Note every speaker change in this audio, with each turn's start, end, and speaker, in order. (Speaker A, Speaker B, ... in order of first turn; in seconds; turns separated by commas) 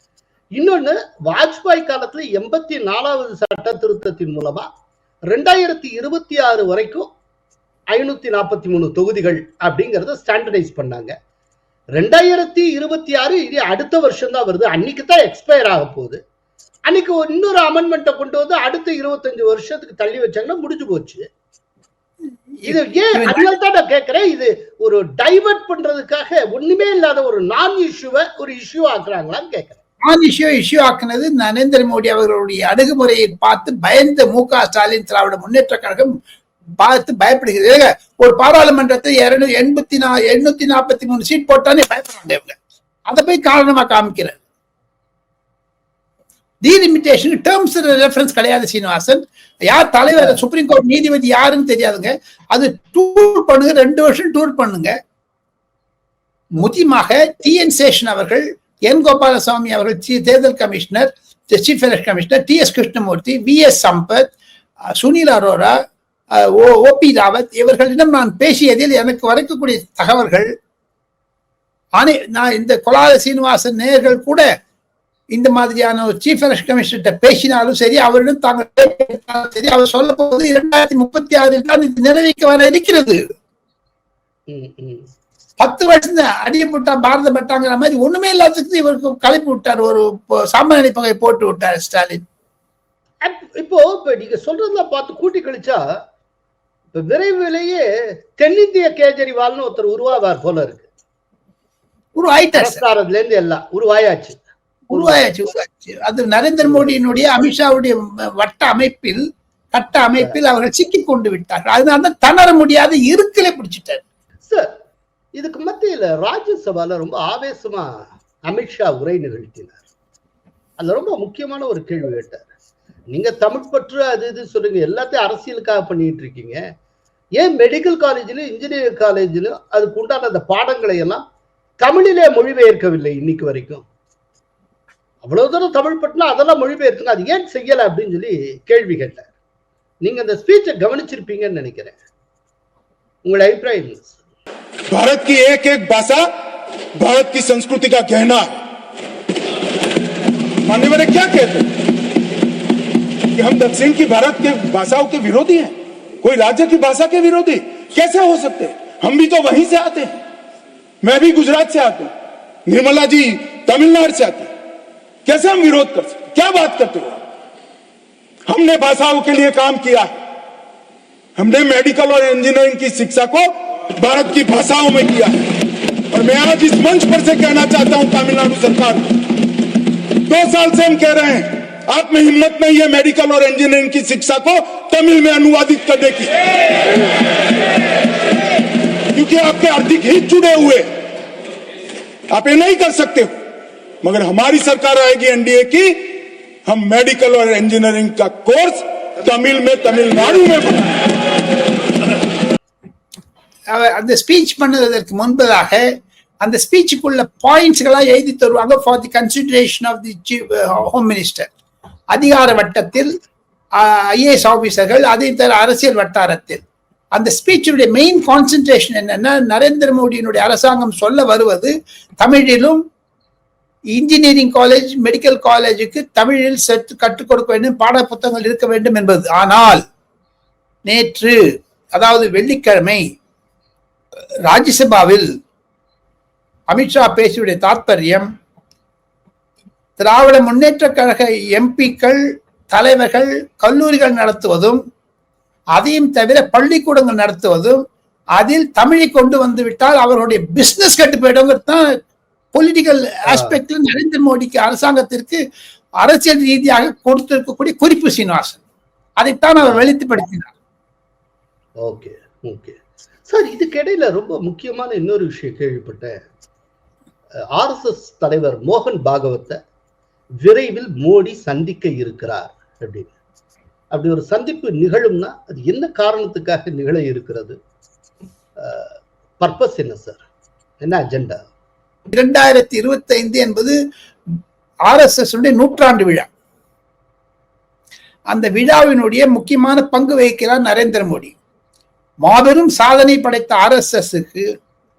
Speaker A: 0.6-4.7, Speaker A: 5.3-7.1, Speaker A: 7.9-11.1, Speaker A: 12.0-16.2, Speaker A: 16.9-21.3, Speaker B: 22.6-23.5, Speaker A: 22.6-29.8, Speaker B: 30.1-36.1, Speaker B: 36.8-42.6, Speaker B: 43.1-44.4, Speaker B: 46.6-54.9, Speaker B: 56.6-64.3, Speaker B: 65.0-65.7, Speaker B: 66.4-70.5, Speaker B: 72.0-74.5, Speaker B: 75.3-83.2, Speaker A: 84.5-85.1, Speaker B: 85.6-92.2, Speaker A: 93.2-95.8, Speaker A: 96.9-97.9, Speaker A: 98.4-100.9, Speaker B: 102.2-102.8, Speaker A: 102.6-104.4, Speaker B: 104.9-109.2, Speaker A: 104.9-105.3, Speaker A: 106.6-106.9, Speaker B: 109.7-114.0, Speaker A: 114.5-114.7, Speaker A: 115.4-119.8, Speaker A: 120.8-122.5, Speaker A: 123.1-126.6, Speaker A: 127.4-131.2, Speaker A: 131.8-133.8, Speaker A: 135.2-139.2, Speaker A: 140.0-141.9, Speaker A: 143.3-144.2, Speaker C: 144.9-146.3, Speaker C: 146.9-148.6, Speaker C: 150.6-151.7, Speaker C: 153.3-160.2, Speaker C: 161.0-162.1, Speaker C: 162.7-164.5, Speaker C: 165.2-167.2, Speaker C: 168.5-170.1, Speaker C: 171.4-175.5, Speaker C: 176.1-179.1, Speaker C: 180.3-186.5, Speaker C: 189.1-190.9, Speaker C: 192.3-193.4, Speaker C: 194.0-201.1, Speaker B: 203.7-205.9, Speaker B: 206.4-211.5, Speaker B: 212.1-213.1, Speaker B: 213.8-216.6, Speaker B: 217.2-222.8, Speaker B: 223.9-229.8, Speaker B: 230.9-231.4, Speaker B: 231.9-233.0, Speaker B: 234.5-235.3, Speaker B: 236.7-238.3, Speaker B: 240.0-242.2, Speaker B: 242.7-244.8, Speaker B: 245.8-247.8, Speaker B: 248.4-251.9, Speaker B: 252.5-255.4, Speaker A: 253.3-253.6, Speaker B: 256.0-258.6, Speaker B: 259.2-260.5, Speaker A: 261.8-266.1, Speaker A: 267.6-269.6, Speaker A: 270.4-273.1, Speaker A: 273.9-277.6, Speaker A: 278.6-280.2, Speaker A: 280.8-281.4, Speaker B: 282.1-283.8, Speaker B: 284.9-286.3, Speaker B: 288.3-291.4, Speaker B: 292.2-294.5